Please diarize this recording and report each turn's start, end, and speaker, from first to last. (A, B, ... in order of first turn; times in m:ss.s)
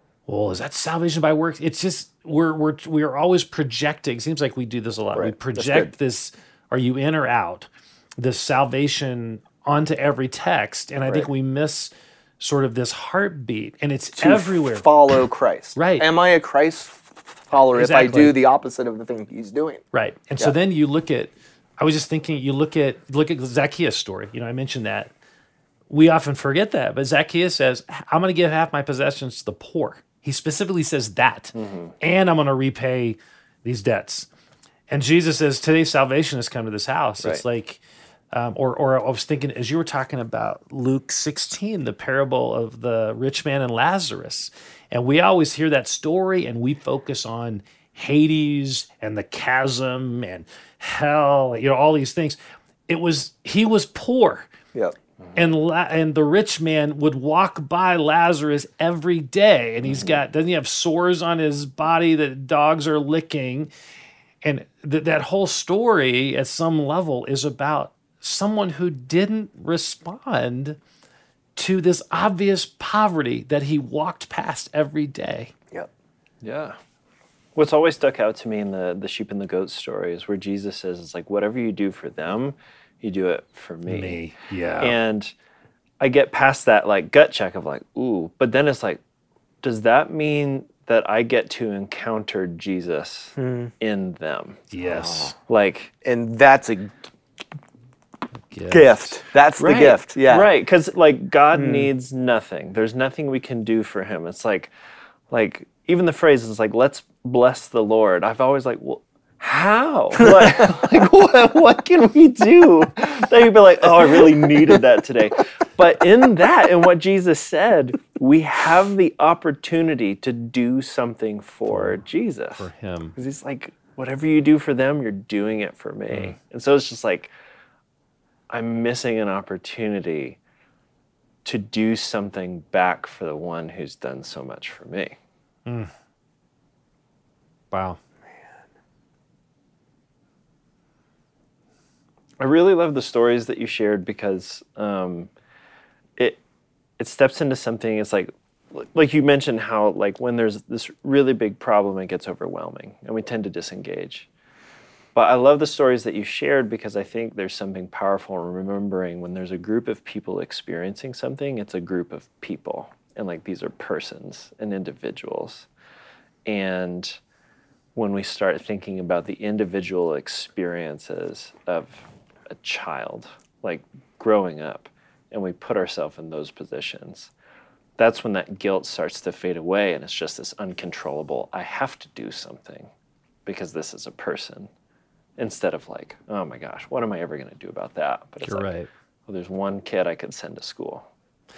0:00.3-0:07.7 A
0:05.1-0:05.9 B
0:08.2-0:14.9 A
0:14.2-0:19.8 B
0:15.8-0:16.1 A
0:17.7-0:18.4 A
0:19.9-0:25.1 A
0:25.9-0:34.3 A
0:31.6-0:32.0 C
0:34.9-0:54.5 A
0:55.4-1:03.7 A
1:04.4-1:10.8 A
1:11.6-1:15.5 A
1:16.4-1:16.8 C
1:17.6-1:24.2 C
1:23.9-1:25.0 A
1:24.8-1:25.3 C
1:26.0-1:29.0 C
1:29.6-1:34.7 C
1:33.4-1:33.7 B
1:34.7-1:35.3 A
1:34.9-1:35.3 B
1:35.4-1:35.9 C
1:36.0-1:37.1 B
1:38.5-1:39.2 A
1:38.7-1:40.5 B
1:39.6-1:44.7 C
1:41.5-1:41.9 B
1:45.3-2:07.3 C
2:01.7-2:02.0 A
2:02.6-2:03.2 A
2:06.1-2:06.4 A
2:08.5-2:10.4 C
2:11.4-2:15.2 C
2:15.7-2:15.9 A
2:17.7-2:18.0 A
2:22.4-2:25.3 C
2:27.0-2:34.3 C
2:35.2-2:45.7 C
2:46.5-2:47.2 C
2:48.0-2:57.3 C
2:58.0-3:02.9 C
3:03.5-3:04.7 C
3:05.4-3:08.7 C
3:08.4-3:08.9 A
3:09.3-3:11.1 C